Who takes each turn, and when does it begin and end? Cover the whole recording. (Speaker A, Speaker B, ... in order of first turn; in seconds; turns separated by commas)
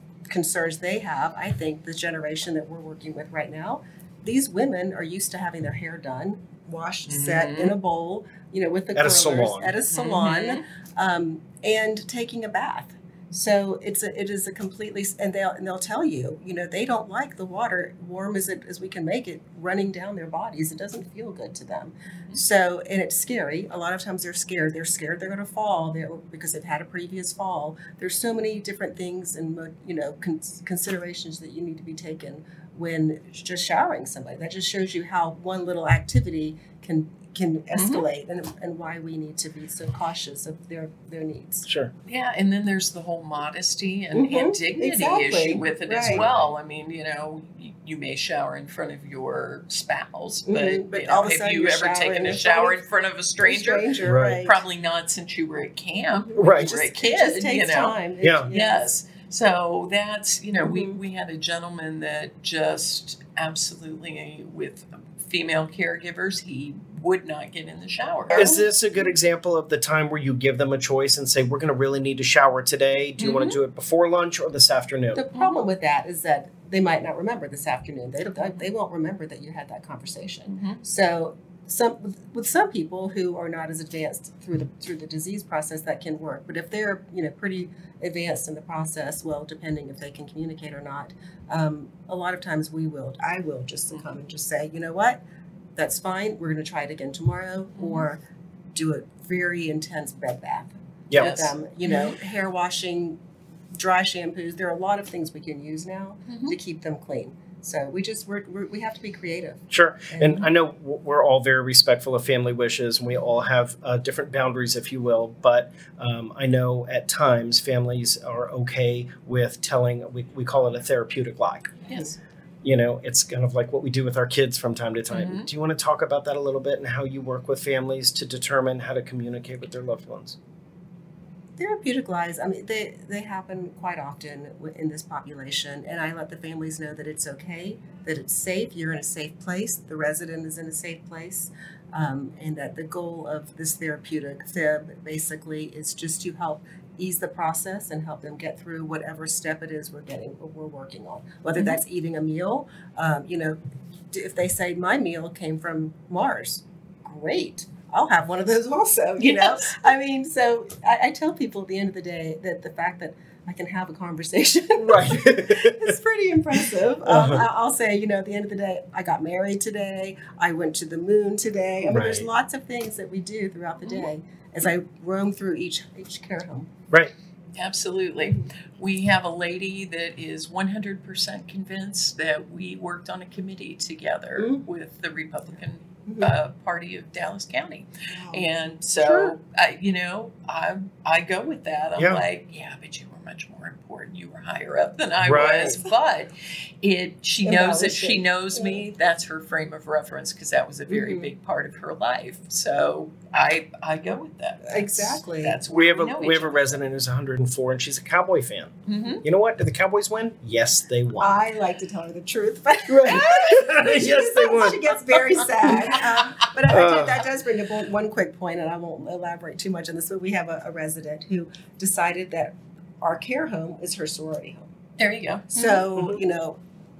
Speaker A: 0.3-41.7, Speaker B: 7.1-7.8, Speaker C: 8.9-9.8, Speaker B: 9.9-10.6, Speaker B: 37.8-38.0, Speaker C: 41.7-41.9, Speaker B: 42.0-58.0, Speaker A: 44.1-46.2, Speaker C: 46.0-46.5, Speaker A: 50.5-52.8, Speaker A: 53.4-54.6, Speaker C: 54.0-54.4, Speaker A: 56.2-58.9, Speaker C: 56.4-56.7, Speaker C: 58.2-58.5, Speaker B: 58.5-68.6, Speaker A: 60.6-61.0, Speaker A: 68.3-68.7, Speaker C: 68.3-75.2, Speaker B: 73.2-73.6, Speaker A: 75.1-95.2, Speaker B: 80.5-80.8, Speaker A: 95.8-98.2, Speaker B: 97.8-98.0, Speaker A: 98.7-103.2, Speaker C: 101.1-101.4, Speaker B: 101.1-102.1, Speaker A: 103.7-110.5, Speaker B: 106.3-106.5, Speaker C: 109.7-121.8, Speaker B: 121.9-122.1, Speaker A: 121.9-122.2, Speaker C: 122.6-130.4, Speaker B: 125.1-125.5, Speaker A: 131.6-153.6, Speaker B: 151.6-151.8, Speaker A: 154.1-176.7, Speaker B: 159.2-159.7, Speaker C: 164.8-165.9, Speaker C: 167.1-167.4, Speaker C: 171.9-172.3, Speaker B: 177.5-196.3, Speaker A: 184.4-184.6, Speaker A: 186.1-186.3, Speaker A: 188.1-188.6, Speaker C: 189.0-189.3, Speaker C: 192.0-192.2, Speaker C: 195.2-195.8, Speaker A: 195.4-195.8, Speaker B: 196.8-206.8, Speaker A: 197.4-198.8, Speaker A: 200.9-201.3, Speaker A: 204.6-205.6, Speaker C: 205.7-211.4, Speaker B: 208.8-209.2, Speaker A: 211.2-224.7, Speaker C: 212.9-214.9, Speaker B: 215.3-216.1, Speaker C: 216.7-217.2, Speaker B: 225.0-225.9, Speaker A: 225.5-226.6